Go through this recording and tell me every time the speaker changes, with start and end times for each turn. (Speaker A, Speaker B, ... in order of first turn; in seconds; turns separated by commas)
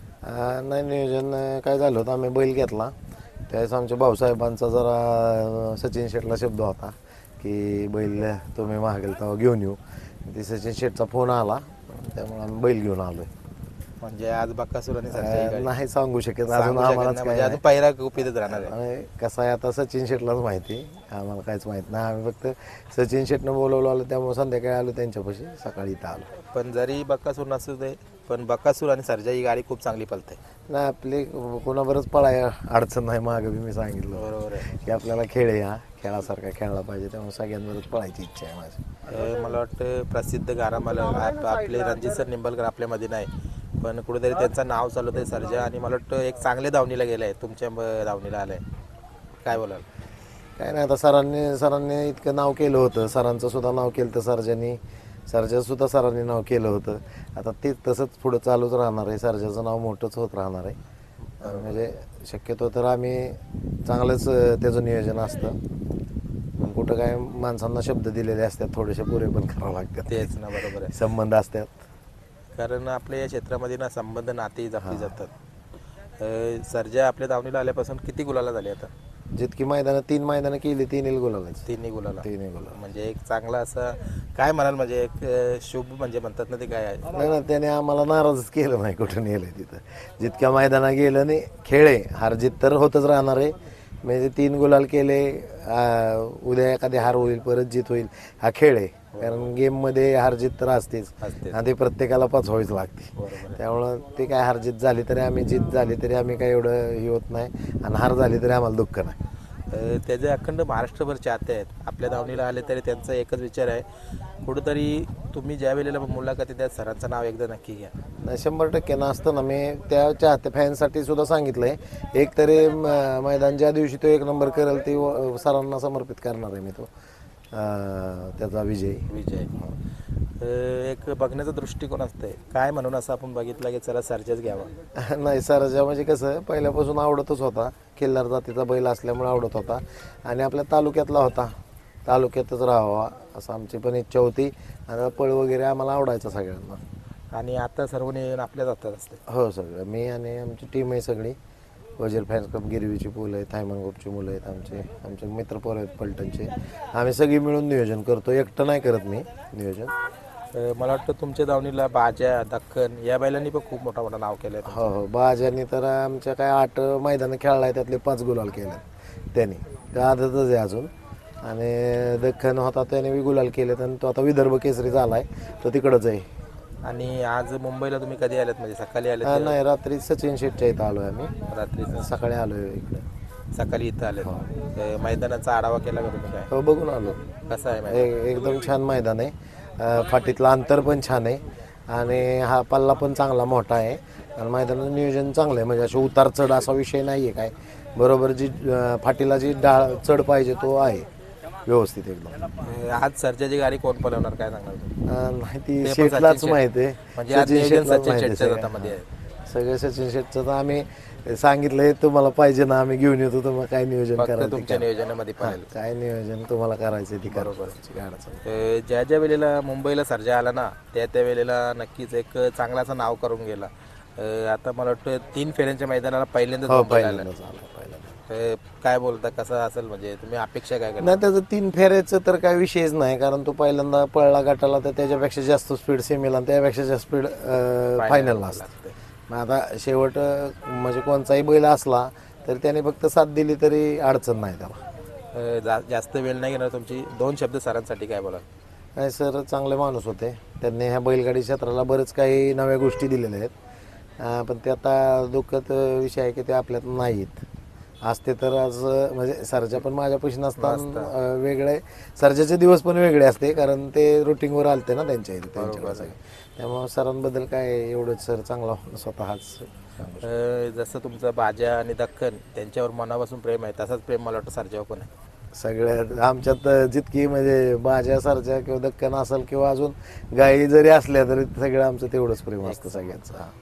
Speaker A: 0.2-2.9, Speaker A: 3.5-13.3, Speaker B: 14.0-15.7, Speaker A: 15.1-17.6, Speaker B: 16.5-18.8, Speaker A: 18.5-26.3, Speaker B: 26.5-30.4, Speaker A: 30.7-38.9, Speaker B: 34.1-34.7, Speaker B: 39.1-48.6, Speaker B: 49.4-49.9, Speaker A: 50.6-60.8, Speaker A: 61.4-65.6, Speaker B: 61.4-61.8, Speaker A: 66.6-71.8, Speaker B: 70.1-71.0, Speaker B: 72.6-75.3, Speaker A: 74.8-75.2, Speaker B: 76.2-78.9, Speaker A: 79.3-81.7, Speaker B: 81.7-87.2, Speaker A: 82.2-82.8, Speaker A: 87.1-109.2, Speaker B: 99.1-99.5, Speaker B: 101.2-101.6, Speaker B: 103.2-103.6, Speaker B: 109.7-113.9, Speaker B: 114.4-117.9, Speaker A: 118.2-126.9, Speaker A: 127.5-129.7, Speaker B: 129.1-129.5, Speaker B: 130.4-134.7, Speaker A: 134.9-146.8, Speaker B: 147.3-149.2, Speaker A: 149.3-151.4, Speaker A: 152.0-159.9, Speaker B: 160.5-164.9, Speaker A: 164.7-170.9, Speaker A: 171.4-176.3, Speaker B: 176.8-179.6, Speaker A: 179.2-181.3, Speaker B: 181.5-182.1, Speaker A: 181.9-183.0, Speaker B: 183.5-186.5, Speaker A: 186.5-187.2, Speaker B: 187.5-188.1, Speaker A: 187.9-201.1, Speaker A: 201.7-202.5, Speaker B: 202.6-204.9, Speaker A: 205.0-218.4, Speaker B: 205.8-206.6, Speaker B: 207.2-209.1, Speaker B: 214.2-215.7, Speaker B: 217.3-217.8, Speaker B: 218.4-227.3, Speaker A: 226.7-228.2, Speaker B: 228.3-231.2, Speaker A: 231.0-238.7, Speaker B: 238.0-238.9, Speaker A: 239.3-244.8, Speaker B: 245.3-248.4, Speaker A: 249.0-253.5, Speaker A: 254.2-257.5, Speaker A: 258.0-270.3, Speaker B: 260.6-261.1, Speaker B: 265.6-266.1, Speaker B: 270.2-275.1, Speaker A: 275.5-283.5, Speaker B: 282.6-283.1